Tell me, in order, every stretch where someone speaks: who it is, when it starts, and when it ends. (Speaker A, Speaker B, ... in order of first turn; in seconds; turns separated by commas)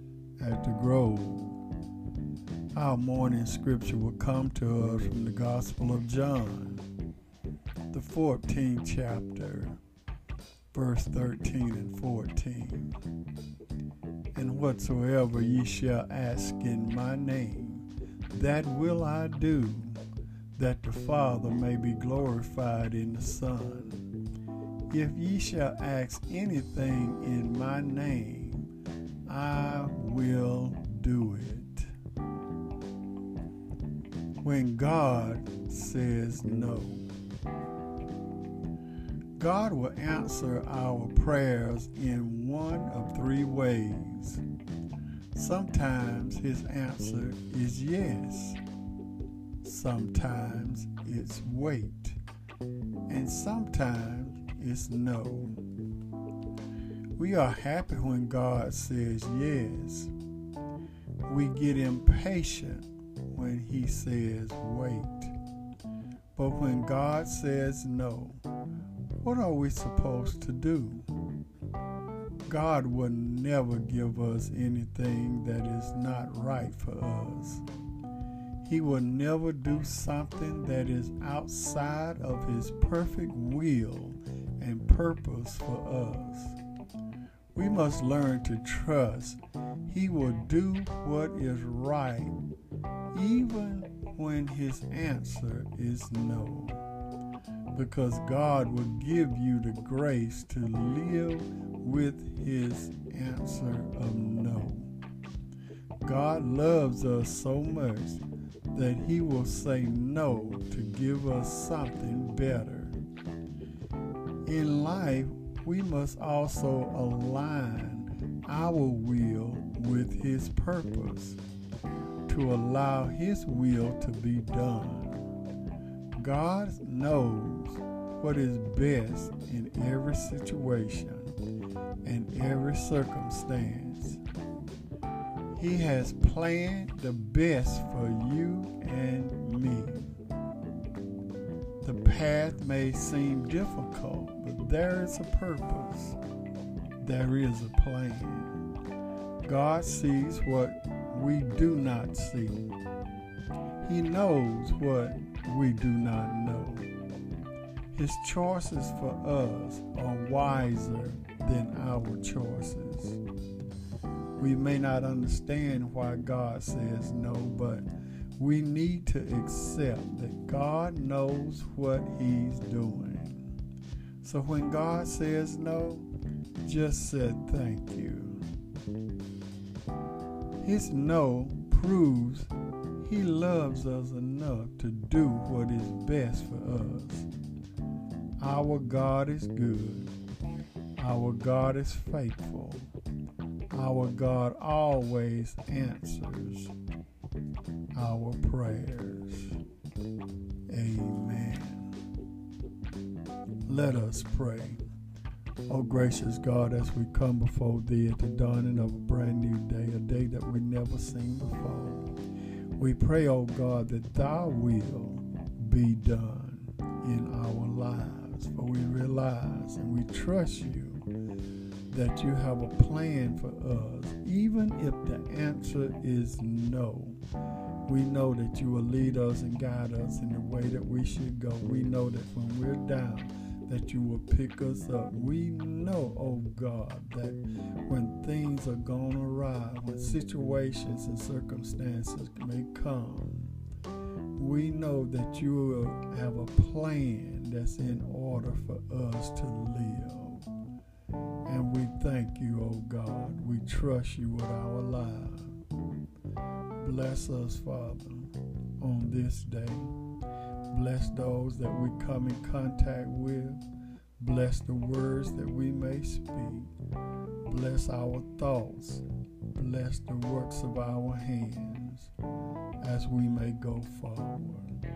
Speaker A: 0.4-1.6, Speaker A: 2.7-6.9, Speaker A: 7.9-9.8, Speaker A: 10.7-13.0, Speaker A: 14.3-20.0, Speaker A: 20.6-24.1, Speaker A: 24.9-28.7, Speaker A: 29.3-31.9, Speaker A: 34.4-37.1, Speaker A: 39.4-44.4, Speaker A: 45.3-48.6, Speaker A: 49.6-52.2, Speaker A: 53.1-55.6, Speaker A: 57.2-60.1, Speaker A: 61.3-65.4, Speaker A: 66.3-68.4, Speaker A: 69.2-71.1, Speaker A: 72.5-77.6, Speaker A: 78.6-86.6, Speaker A: 87.5-92.4, Speaker A: 93.1-96.9, Speaker A: 97.7-104.9, Speaker A: 106.0-113.0, Speaker A: 114.5-121.4, Speaker A: 122.3-125.3, Speaker A: 126.2-131.4, Speaker A: 132.0-134.2, Speaker A: 135.5-140.2, Speaker A: 141.8-146.2, Speaker A: 147.0-148.6, Speaker A: 149.4-152.7, Speaker A: 153.8-156.9, Speaker A: 157.9-163.2, Speaker A: 164.4-173.5, Speaker A: 174.2-176.1, Speaker A: 176.6-178.5, Speaker A: 180.6-187.3, Speaker A: 188.4-190.1, Speaker A: 191.0-192.9, Speaker A: 193.7-196.7, Speaker A: 197.9-199.6, Speaker A: 200.7-202.0, Speaker A: 203.7-204.8, Speaker A: 205.7-212.2, Speaker A: 212.8-221.1, Speaker A: 221.9-227.2, Speaker A: 227.9-243.6, Speaker A: 244.4-250.5, Speaker A: 251.4-255.6, Speaker A: 256.8-259.9, Speaker A: 260.7-263.6, Speaker A: 264.2-266.7, Speaker A: 267.4-272.1, Speaker A: 272.8-274.8